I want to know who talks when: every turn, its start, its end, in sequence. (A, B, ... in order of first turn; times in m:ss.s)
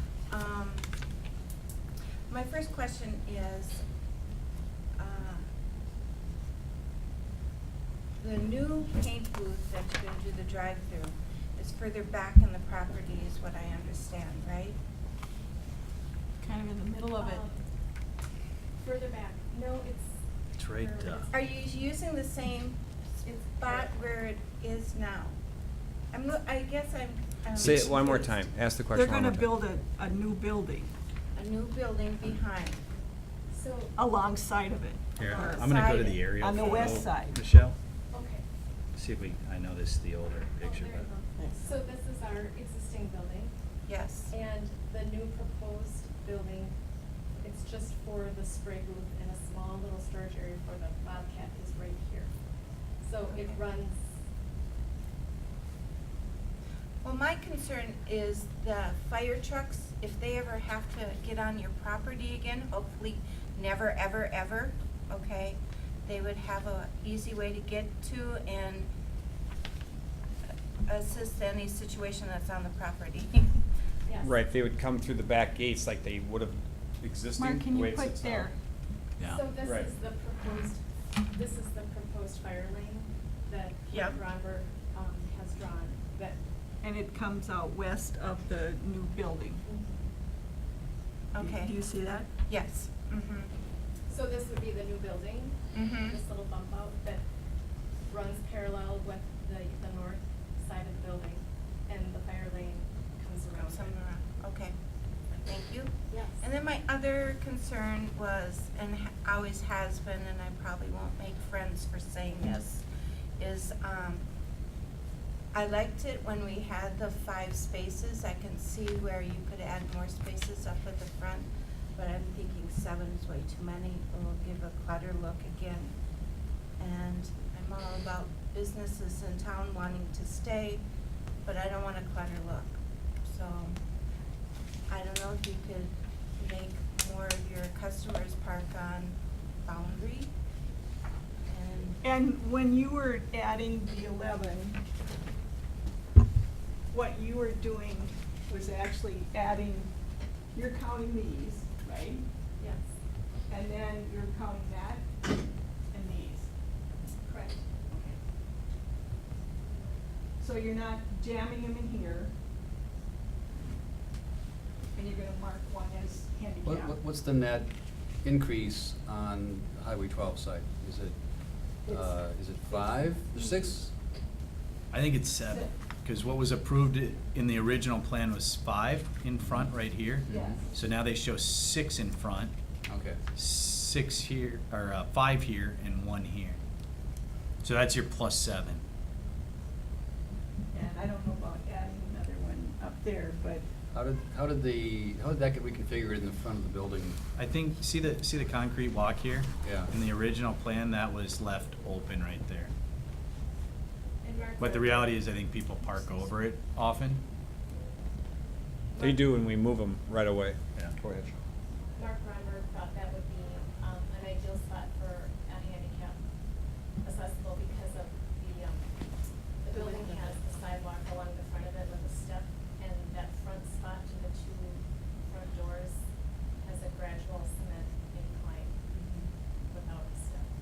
0:00.3-0:00.9 A
0:02.3-0:03.8 A
0:05.0-0:05.4 A
0:08.2-0:14.8 A
0:16.4-0:17.4 B
0:17.2-0:17.6 C
0:18.8-0:21.3 C
0:20.6-0:21.3 D
0:21.3-0:25.4 A
0:26.1-0:28.4 A
0:27.5-0:29.5 E
0:28.9-0:30.9 B
0:31.3-0:32.8 A
0:33.5-0:33.9 C
0:34.0-0:35.7 B
0:35.2-0:37.8 D
0:35.2-0:37.0 A
0:36.3-0:37.4 B
0:38.1-0:38.4 C
0:38.9-0:41.1 D
0:40.6-0:43.5 C
0:43.9-0:44.3 A
0:44.3-0:46.7 C
0:47.4-0:52.3 C
0:53.0-0:54.0 C
0:53.3-0:53.6 A
0:57.0-1:08.9 A
1:10.8-1:13.6 A
1:14.0-1:14.3 C
1:14.2-1:18.5 E
1:17.4-1:18.5 B
1:19.2-1:19.5 D
1:19.2-1:26.4 C
1:19.6-1:19.9 E
1:23.9-1:24.2 A
1:26.8-1:29.6 B
1:29.6-1:30.0 C
1:31.3-1:31.7 A
1:31.4-1:32.3 B
1:32.4-1:33.5 A
1:34.1-1:37.2 C
1:35.7-1:36.2 A
1:38.1-1:44.0 C
1:43.6-1:44.8 A
1:45.4-1:52.8 A
1:46.1-1:46.4 C
1:53.4-1:54.2 A
1:55.5-2:05.9 A
2:06.8-2:10.8 A
2:11.4-2:13.8 A
2:14.9-2:20.3 A
2:21.5-2:22.0 A
2:22.0-2:24.8 B
2:26.9-2:29.9 B
2:30.5-2:32.2 B
2:33.5-2:35.0 B
2:35.9-2:36.5 B
2:37.2-2:37.6 C
2:37.9-2:38.2 B
2:40.4-2:42.3 B
2:44.9-2:46.9 B
2:46.6-2:47.7 F
2:48.2-2:51.1 F
2:51.8-2:53.7 B
2:51.9-2:53.9 F
2:54.9-3:02.5 D
2:55.5-2:55.7 B
3:00.3-3:00.6 F
3:00.3-3:00.7 B
3:02.9-3:03.2 F
3:03.3-3:06.6 D
3:07.6-3:08.8 D
3:10.7-3:13.6 B
3:13.9-3:17.2 F
3:17.3-3:22.7 D
3:19.6-3:19.9 F
3:24.2-3:26.3 C
3:24.6-3:27.2 D
3:28.9-3:29.3 C
3:29.0-3:31.4 E
3:32.0-3:36.2 C
3:37.0-3:38.9 C
3:39.6-3:46.0 C
3:39.7-3:40.4 A
3:46.6-3:48.7 C
3:48.9-3:49.3 A
3:49.7-3:50.4 C